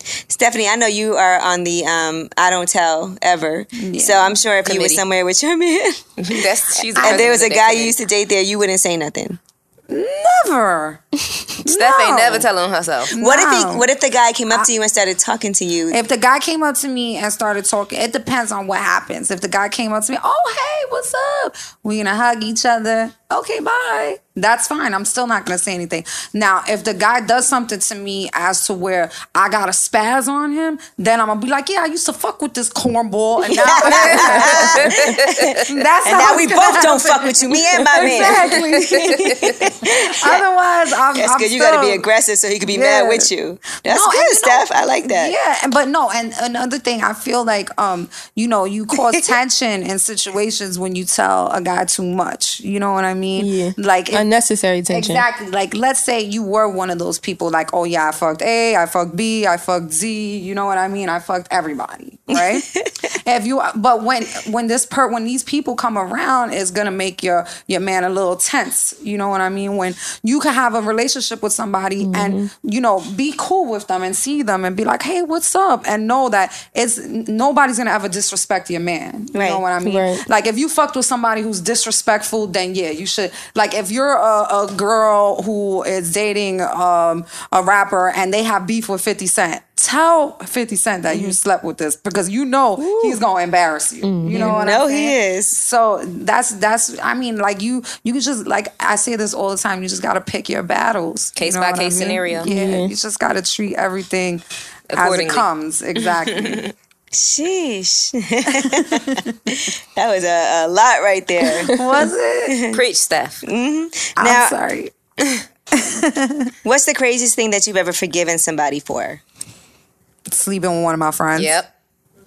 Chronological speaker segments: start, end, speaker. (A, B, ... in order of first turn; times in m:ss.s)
0:00.3-0:09.4 A
0:03.8-0:04.4 B
0:04.6-0:05.0 C
0:06.2-0:08.0 C
0:07.0-0:07.4 B
0:09.9-0:11.0 B
0:11.6-0:12.5 B
0:11.6-0:13.1 C
0:13.1-0:13.8 B
0:13.2-0:16.0 A
0:15.9-0:42.0 B
0:33.4-0:40.4 A
0:33.8-0:35.6 C
0:38.7-0:39.7 C
0:41.1-0:45.3 A
0:42.6-0:43.3 B
0:43.8-0:54.3 B
0:48.9-0:49.3 A
0:53.4-0:55.2 D
0:54.9-1:46.7 B
1:02.3-1:03.0 A
1:12.0-1:12.5 D
1:19.3-1:19.6 A
1:19.8-1:20.2 D
1:31.1-1:31.4 A
1:32.8-1:33.2 A
1:34.0-1:34.6 D
1:34.3-1:35.6 A
1:41.4-1:42.5 C
1:42.4-1:42.9 D
1:44.9-1:45.4 C
1:46.0-1:46.7 C
1:47.1-1:51.8 A
1:48.6-1:49.3 B
1:51.7-1:52.6 B
1:52.5-1:52.8 A
1:52.7-1:53.4 C
1:53.4-1:54.6 A
1:54.2-1:54.9 B
1:55.7-1:56.5 B
1:56.6-1:59.2 A
2:00.3-2:01.5 B
2:01.4-2:01.7 C